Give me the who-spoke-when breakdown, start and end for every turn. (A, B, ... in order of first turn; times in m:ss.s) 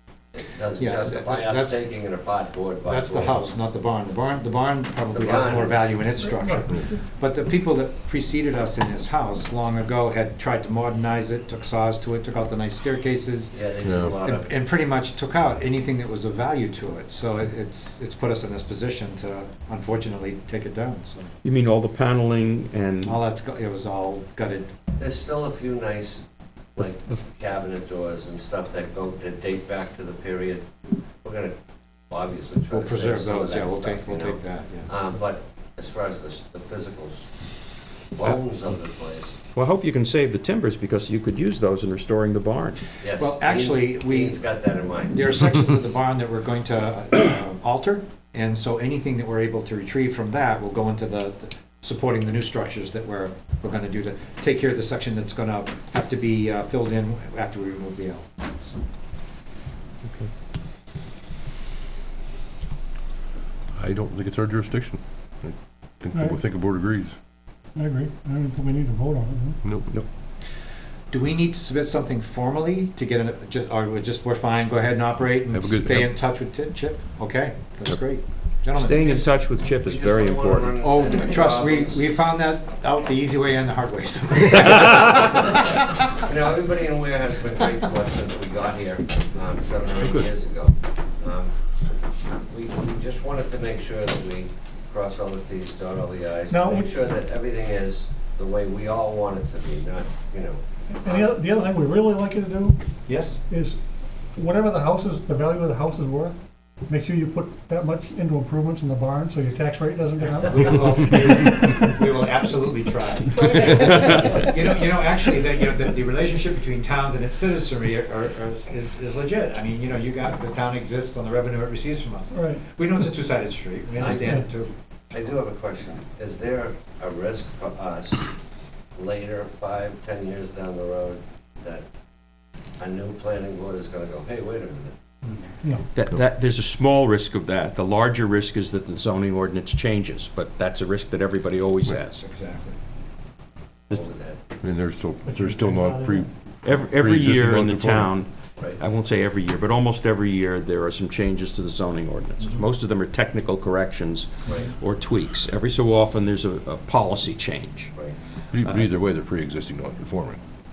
0:00.3-0:03.6 A
0:00.8-0:01.9 B
0:02.9-0:13.6 B
0:05.1-0:05.9 A
0:06.2-0:07.0 C
0:13.5-0:14.5 A
0:13.8-0:14.2 D
0:14.2-0:21.3 B
0:21.4-0:23.2 E
0:23.1-0:24.7 B
0:25.0-0:26.2 A
0:26.8-0:30.7 A
0:31.2-0:31.5 A
0:32.1-0:37.3 A
0:32.7-0:35.0 B
0:38.1-0:39.4 A
0:39.6-0:42.8 E
0:43.0-0:45.3 A
0:43.2-0:58.8 B
1:00.0-1:00.3 E
1:03.7-1:07.2 D
1:06.1-1:06.4 C
1:07.8-1:09.7 C
1:09.6-1:09.9 D
1:11.1-1:19.0 B
1:15.5-1:16.2 D
1:18.7-1:20.8 E
1:19.0-1:19.3 A
1:19.8-1:22.1 A
1:20.8-1:25.7 B
1:26.2-1:31.6 A
1:30.0-1:30.3 E
1:32.5-1:41.4 A
1:36.5-1:37.0 C
1:41.0-1:42.8 C
1:43.1-1:43.4 B
1:43.5-1:43.8 C
1:44.3-1:46.4 C
1:46.9-1:51.1 C
1:50.4-2:04.7 B
1:53.4-1:54.5 C
1:53.8-1:54.4 E
2:02.3-2:02.6 C
2:04.0-2:04.4 A
2:04.1-2:04.4 C
2:05.1-2:08.2 A
2:09.0-2:11.8 A
2:12.8-2:15.0 A
2:15.9-2:22.2 E
2:22.1-2:22.8 B
2:23.9-2:24.4 A
2:24.6-2:28.2 D
2:25.2-2:26.3 C
2:26.6-2:38.9 E
2:34.5-2:34.7 A
2:38.5-2:40.4 D